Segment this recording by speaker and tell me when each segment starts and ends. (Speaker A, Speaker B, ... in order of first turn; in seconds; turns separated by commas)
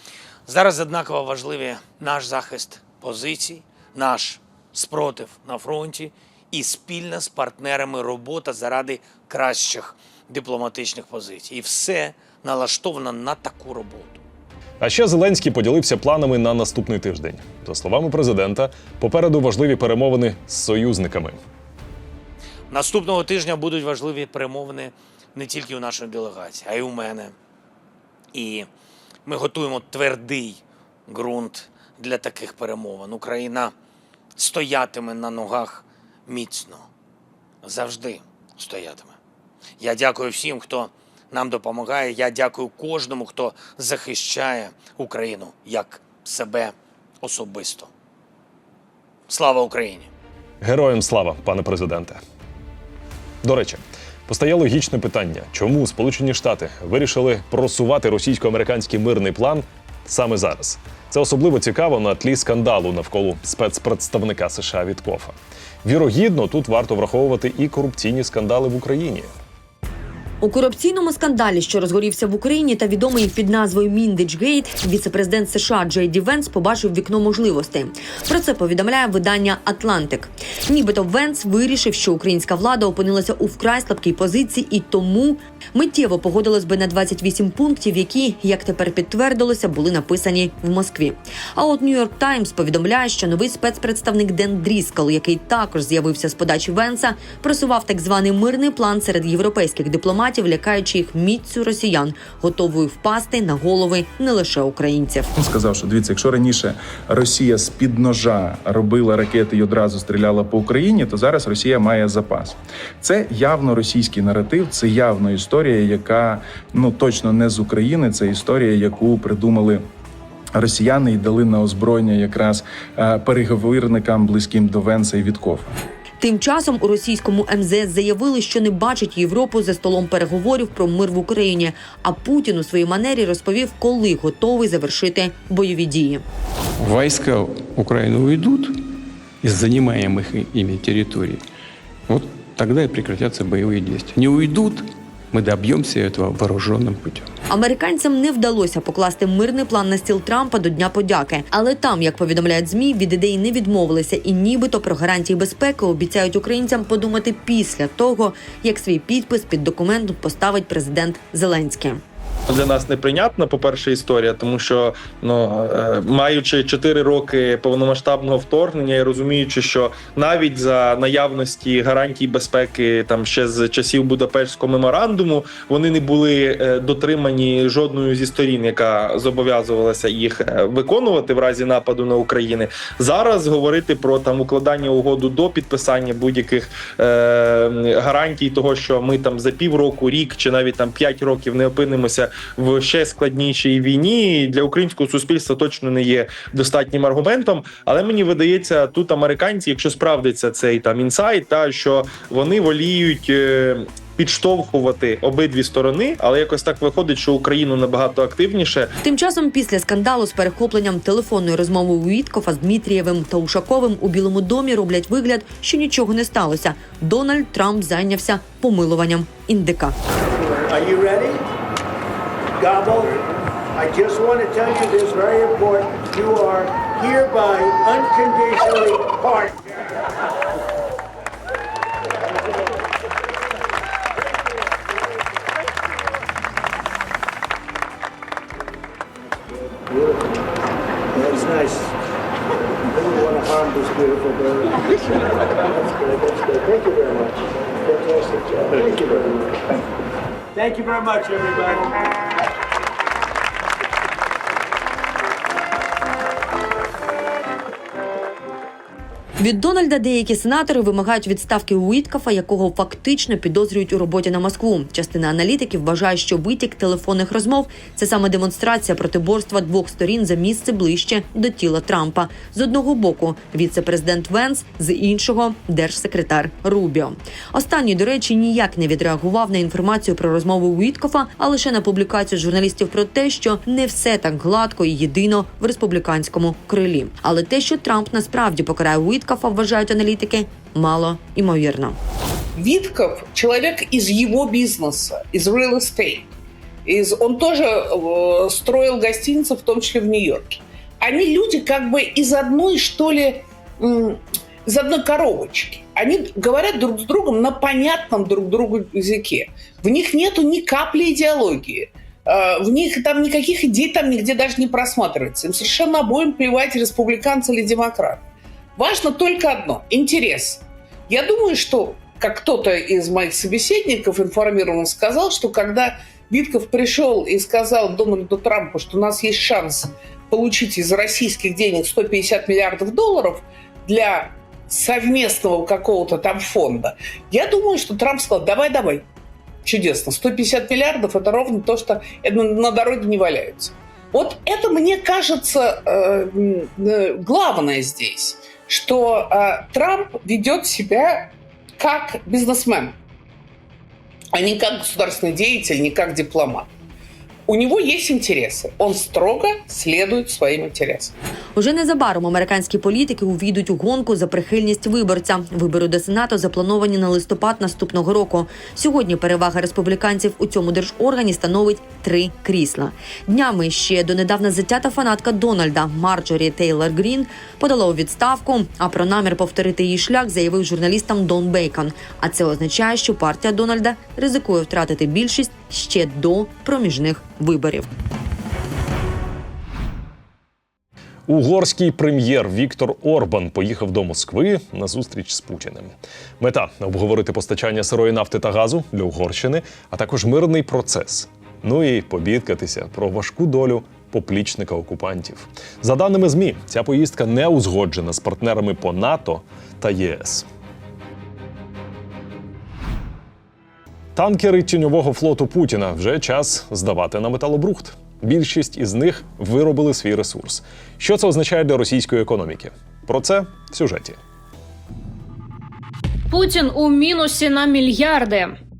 Speaker A: 0.5-14.2, Speaker B: 14.8-21.4, Speaker A: 22.7-27.3, Speaker A: 28.3-28.7, Speaker A: 29.3-33.7, Speaker A: 34.4-36.9, Speaker A: 37.6-39.2, Speaker A: 39.8-47.9, Speaker A: 49.3-50.1, Speaker B: 50.6-52.2, Speaker B: 53.4-69.3, Speaker C: 70.4-105.3, Speaker D: 105.4-119.8, Speaker D: 120.5-125.8, Speaker C: 126.2-136.2, Speaker E: 136.8-138.8, Speaker E: 139.4-141.4, Speaker E: 142.1-147.3, Speaker C: 147.5-162.0, Speaker F: 162.5-208.9, Speaker C: 209.0-220.0, Speaker G: 220.3-221.5, Speaker G: 222.6-223.2, Speaker G: 223.7-229.6, Speaker G: 232.2-232.7, Speaker G: 239.8-240.4, Speaker G: 241.1-242.0, Speaker G: 242.9-249.6, Speaker G: 250.6-252.2, Speaker C: 259.4-292.0, Speaker H: 292.6-296.3, Speaker H: 296.9-318.2, Speaker H: 318.8-339.1, Speaker H: 339.6-353.0, Speaker H: 354.3-356.7, Speaker H: 357.5-361.1, Speaker C: 361.6-387.9, Speaker B: 391.3-410.5, Speaker B: 414.2-424.2, Speaker I: 426.3-428.6